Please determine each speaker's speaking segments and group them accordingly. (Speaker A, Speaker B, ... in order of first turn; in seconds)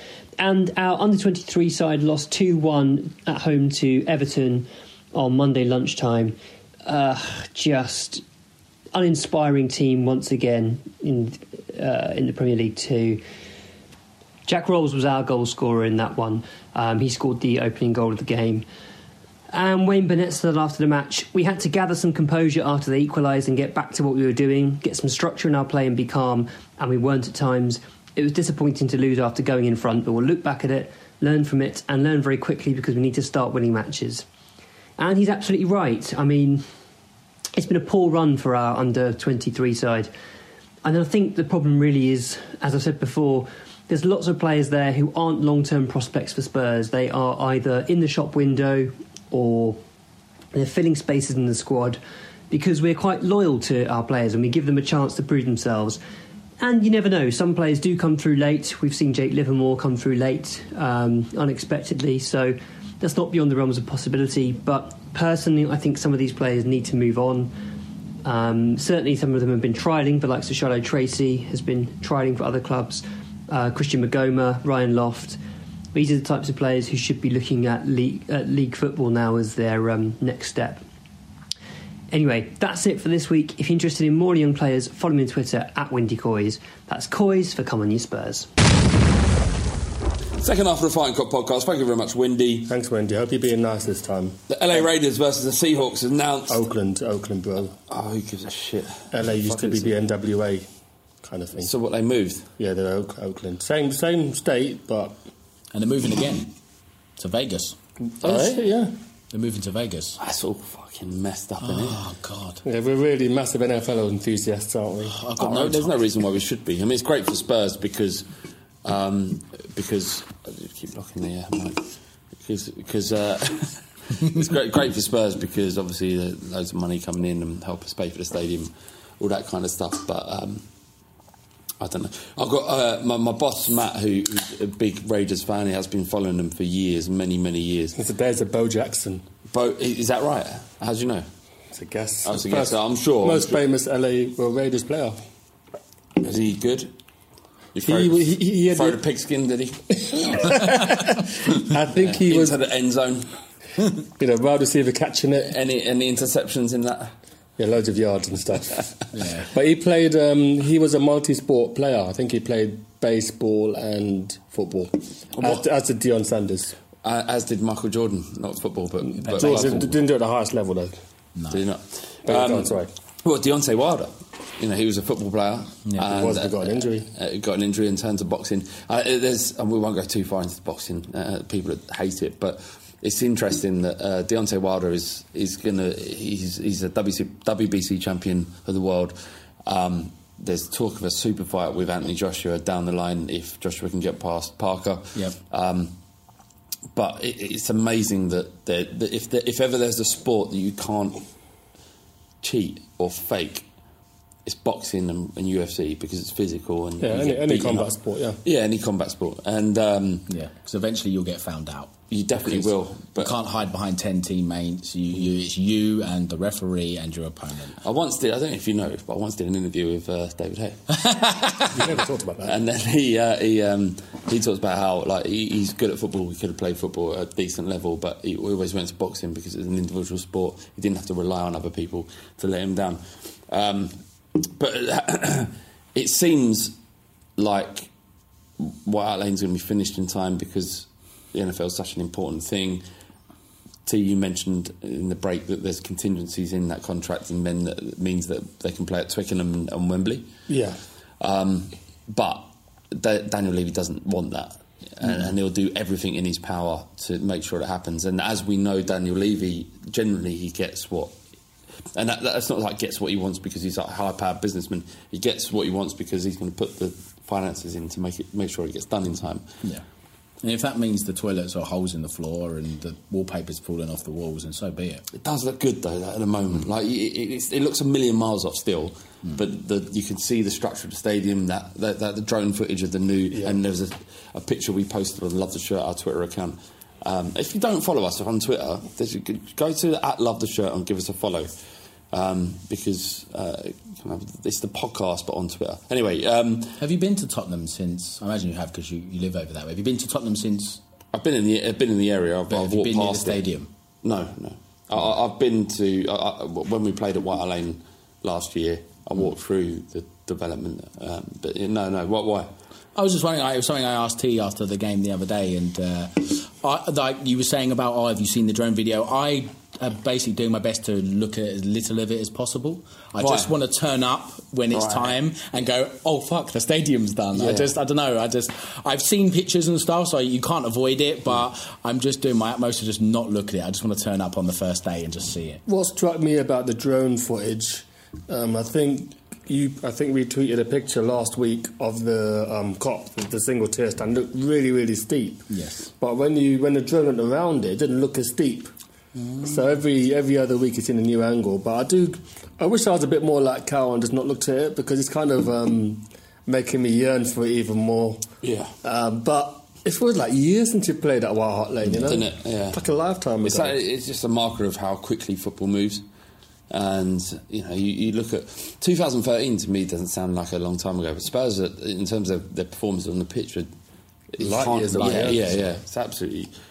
Speaker A: 0.4-8.2, 8.9-13.2, 14.5-18.6, 19.5-34.2, 35.0-36.6, 37.5-40.1, 40.8-49.8, 50.5-56.0, 56.6-67.5, 68.2-75.4, 75.9-80.8, 82.1-88.5
Speaker B: 90.4-92.7, 94.5-96.6, 97.9-100.0, 101.6-102.5, 110.2-112.0, 115.4-118.2, 118.8-121.9, 122.4-130.6, 131.8-138.0, 139.5-141.2, 142.2-143.6, 146.2-146.9, 147.7-150.5, 151.9-153.3, 155.5-157.1, 165.4-165.6, 167.0-170.0, 171.5-189.1, 189.7-195.9, 196.9-201.2, 202.4-203.6, 204.4-207.9, 208.4-210.3, 212.1-213.3, 217.8-220.9, 222.4-233.9, 234.6-236.7, 237.4-237.9, 238.6-242.8, 243.8-250.2, 251.2-261.1, 261.9-269.4, 275.1-291.5, 292.1-296.8, 301.1-303.4, 304.0-312.5, 323.2-323.5, 324.7-325.1, 327.4-327.7, 358.4-358.7, 362.1-362.8, 363.4-366.0, 366.7-373.7, 374.3-376.5
Speaker C: 92.7-94.8, 96.5-97.7, 99.1-100.7, 101.2-101.7, 102.6-105.2, 108.2-108.9, 112.6-115.2, 137.9-139.2, 141.7-145.2, 147.8-149.0, 150.0-152.6, 154.2-155.5, 157.6-158.9, 159.4-166.7, 169.1-171.0, 172.2-172.9, 176.0-177.1, 207.0-208.4, 221.7-222.6, 250.5-250.8, 335.7-345.5, 346.0-348.7, 349.4-358.2, 358.8-363.8, 374.4-375.6
Speaker D: 105.7-106.5, 107.2-107.8, 109.3-110.2, 111.6-112.6, 115.1-115.9, 159.1-159.5, 169.3-169.7, 171.3-171.6, 175.8-176.1, 210.3-217.8, 220.9-221.6, 270.4-275.0, 296.8-300.8, 302.5-303.7, 312.9-335.6, 345.5-345.9, 349.2-349.5, 361.8-362.1